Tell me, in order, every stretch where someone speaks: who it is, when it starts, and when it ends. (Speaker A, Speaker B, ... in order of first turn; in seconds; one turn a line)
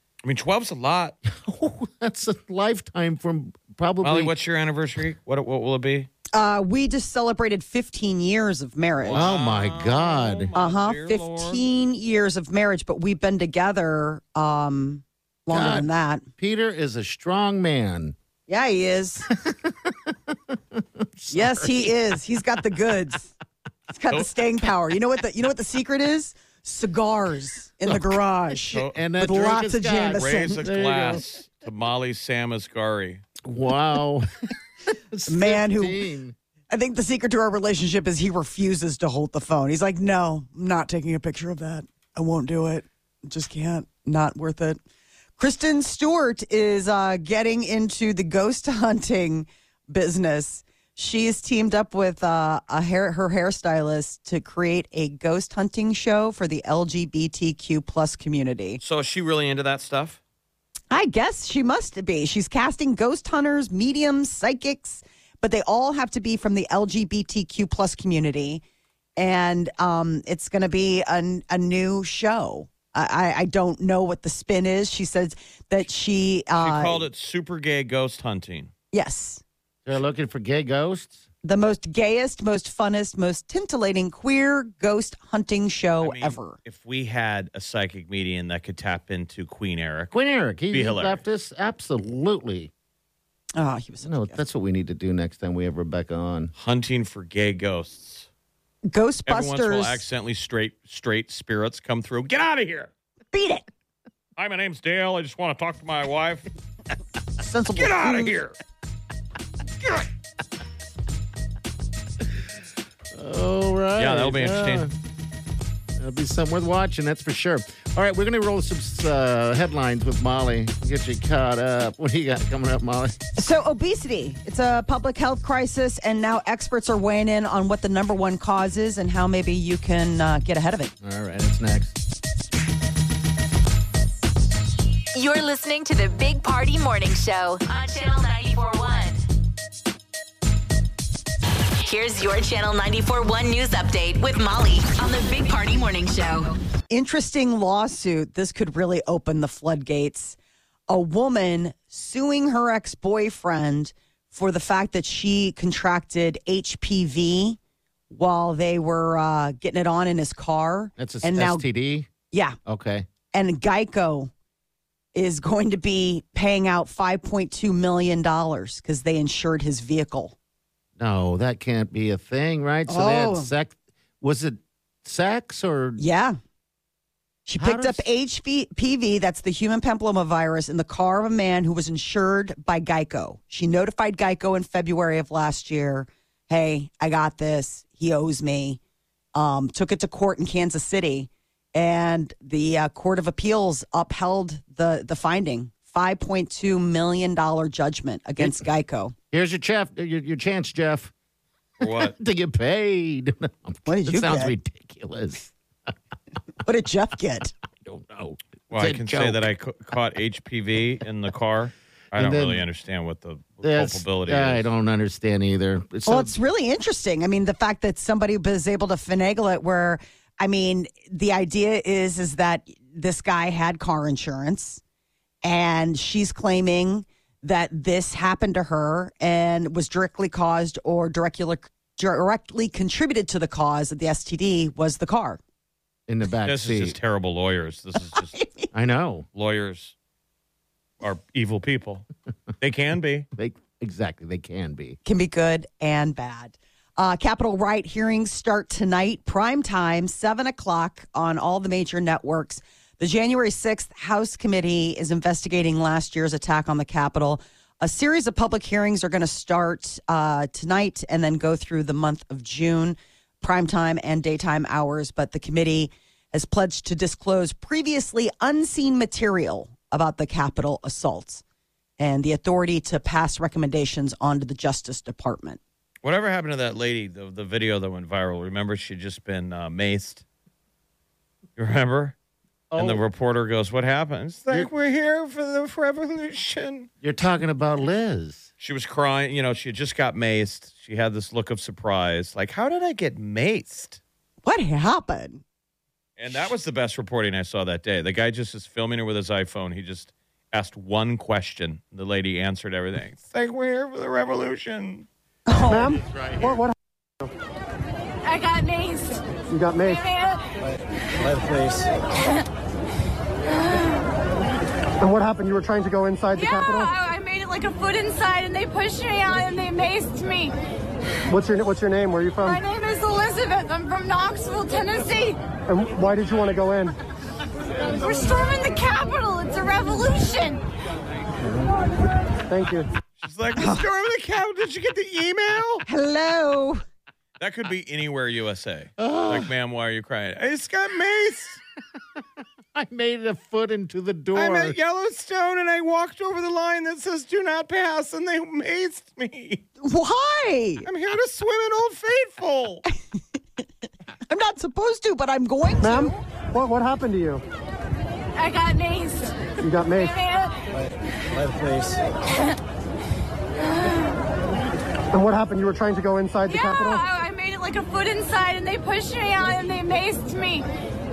Speaker A: 0.2-1.2
Speaker B: 1.3-4.3
Speaker A: 4.0-6.1
Speaker C: 6.3-9.2
Speaker A: 9.0-11.6
Speaker B: 9.1-10.5
Speaker C: 10.6-16.2
Speaker B: 15.5-18.1
Speaker C: 18.5-19.3
Speaker B: 19.3-21.9
Speaker C: 21.3-23.3
Speaker C: 23.9-30.6
Speaker B: 27.9-28.1
Speaker B: 28.9-31.2
Speaker A: 30.1-33.2
Speaker B: 33.4-34.3
Speaker B: 34.9-36.4
Speaker C: 35.3-36.0
Speaker C: 36.7-44.8
Speaker C: 45.4-58.8
Speaker A: 58.8-60.2
Speaker C: 60.9-68.6
Speaker C: 69.2-77.0
Speaker A: 76.6-78.7
Speaker C: 78.9-79.4
Speaker B: 79.8-81.2
Speaker C: 81.4-86.6
Speaker A: 86.0-90.1
Speaker B: 90.1-92.7
Speaker A: 90.7-91.2
Speaker C: 93.5-94.5
Speaker B: 94.0-96.5
Speaker A: 96.6-98.3
Speaker C: 98.9-100.0
Speaker A: 99.2-102.9
Speaker C: 103.3-103.7
Speaker A: 104.4-106.4
Speaker C: 107.4-108.3
Speaker A: 107.8-108.5
Speaker B: 113.1-114.9
Speaker A: 114.0-114.9
Speaker B: 116.0-123.2
Speaker C: 123.4-130.9
Speaker B: 131.0-131.9
Speaker D: 135.1-139.2
Speaker D: 141.8-146.5
Speaker C: 146.9-150.4
Speaker C: 150.9-157.6
Speaker C: 158.1-161.7
Speaker B: 161.0-162.1
Speaker C: 162.3-162.6
Speaker B: 162.7-163.1
Speaker C: 163.3-164.3
Speaker C: 165.1-170.3
Speaker B: 171.0-176.0
Speaker C: 172.9-173.5
Speaker C: 176.0-176.4
Speaker C: 177.4-188.8
Speaker B: 177.6-178.0
Speaker C: 189.3-199.1
Speaker B: 198.4-198.7
Speaker B: 199.3-201.1
Speaker A: 201.8-202.1
Speaker B: 201.8-205.5
Speaker C: 203.8-204.5
Speaker C: 206.6-207.5
Speaker B: 207.8-209.4
Speaker A: 208.7-214.7
Speaker B: 212.1-212.6
Speaker B: 213.6-216.3
Speaker C: 216.1-224.8
Speaker C: 225.4-235.4
Speaker B: 236.1-237.0
Speaker A: 236.4-238.4
Speaker C: 238.2-238.7
Speaker B: 238.7-239.2
Speaker A: 239.3-239.9
Speaker A: 241.0-242.1
Speaker A: 242.6-243.3
Speaker B: 243.3-245.0
Speaker C: 245.0-271.4
Speaker C: 272.0-275.6
Speaker A: 276.0-280.2
Speaker A: 281.6-282.1
Speaker B: 282.7-283.0
Speaker A: 282.8-286.9
Speaker B: 287.0-288.5
Speaker A: 288.6-294.0
Speaker C: 294.4-295.4
Speaker A: 296.2-305.1
Speaker C: 305.5-305.9
Speaker E: 305.7-307.3
Speaker B: 305.7-306.6
Speaker F: 308.2-309.3
Speaker E: 309.5-310.0
Speaker F: 309.8-310.5
Speaker E: 315.0-316.9
Speaker F: 316.4-320.5
Speaker E: 321.3-322.6
Speaker F: 322.4-325.4
Speaker E: 325.7-326.9
Speaker F: 327.8-330.6
Speaker E: 332.5-332.9
Speaker A: 333.2-335.8
Speaker C: 333.6-333.8
Speaker C: 335.9-336.8
Speaker A: 337.4-341.6
Speaker B: 339.0-339.5
Speaker B: 342.7-344.8
Speaker A: 344.3-349.6
Speaker C: 349.8-350.9
Speaker A: 350.8-352.8
Speaker C: 354.3-356.2
Speaker E: 355.8-357.4
Speaker F: 358.4-359.4
Speaker E: 359.6-360.1
Speaker F: 359.9-360.6
Speaker E: 365.1-367.0
Speaker F: 366.5-370.7